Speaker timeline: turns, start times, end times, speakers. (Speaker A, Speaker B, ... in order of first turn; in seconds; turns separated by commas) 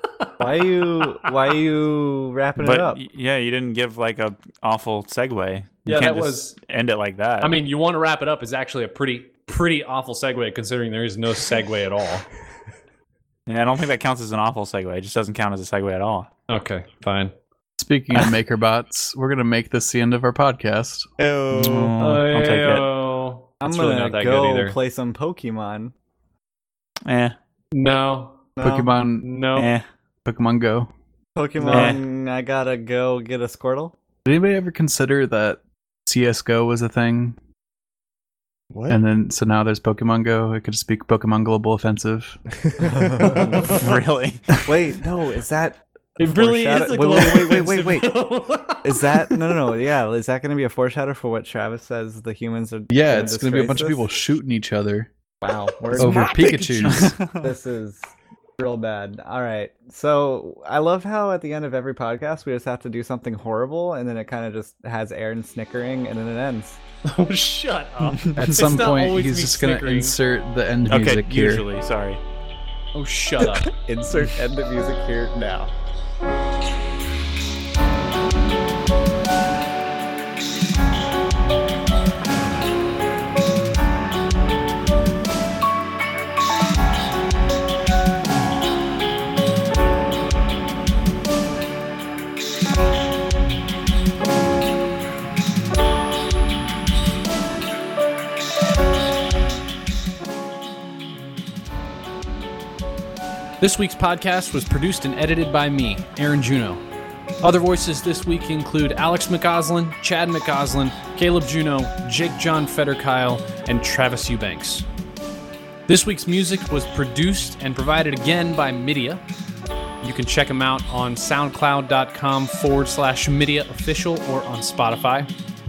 Speaker A: 0.4-3.0, Speaker B: 2.6-7.5, Speaker C: 5.9-6.6, Speaker C: 7.4-12.3, Speaker B: 13.5-16.3, Speaker C: 16.5-17.3, Speaker D: 17.8-21.1, Speaker E: 21.2-21.9, Speaker B: 21.5-22.9, Speaker C: 22.0-24.8, Speaker A: 23.6-25.9, Speaker B: 27.1-27.4, Speaker C: 27.7-28.5, Speaker A: 28.6-28.9, Speaker D: 28.6-29.3, Speaker C: 29.2-29.7, Speaker B: 29.6-29.9, Speaker D: 30.2-30.9, Speaker A: 31.4-34.0, Speaker C: 31.6-32.0, Speaker B: 31.7-32.0, Speaker D: 34.2-37.4, Speaker E: 38.7-39.0, Speaker D: 38.9-42.4, Speaker E: 42.6-43.6, Speaker A: 42.8-43.5, Speaker C: 43.4-44.0, Speaker B: 43.7-44.7, Speaker A: 44.7-48.2, Speaker C: 46.2-49.5, Speaker A: 48.8-54.1, Speaker D: 52.9-55.1, Speaker A: 55.4-56.4, Speaker E: 56.0-57.1, Speaker D: 56.0-57.1, Speaker B: 56.9-57.5, Speaker A: 57.4-58.0, Speaker A: 58.6-66.8, Speaker C: 67.1-70.2, Speaker B: 68.0-68.6, Speaker D: 68.3-71.7, Speaker B: 70.9-72.2, Speaker C: 73.0-73.7, Speaker A: 73.4-75.7, Speaker C: 103.6-106.8, Speaker C: 107.4-114.8, Speaker C: 115.9-119.2, Speaker C: 120.0-125.3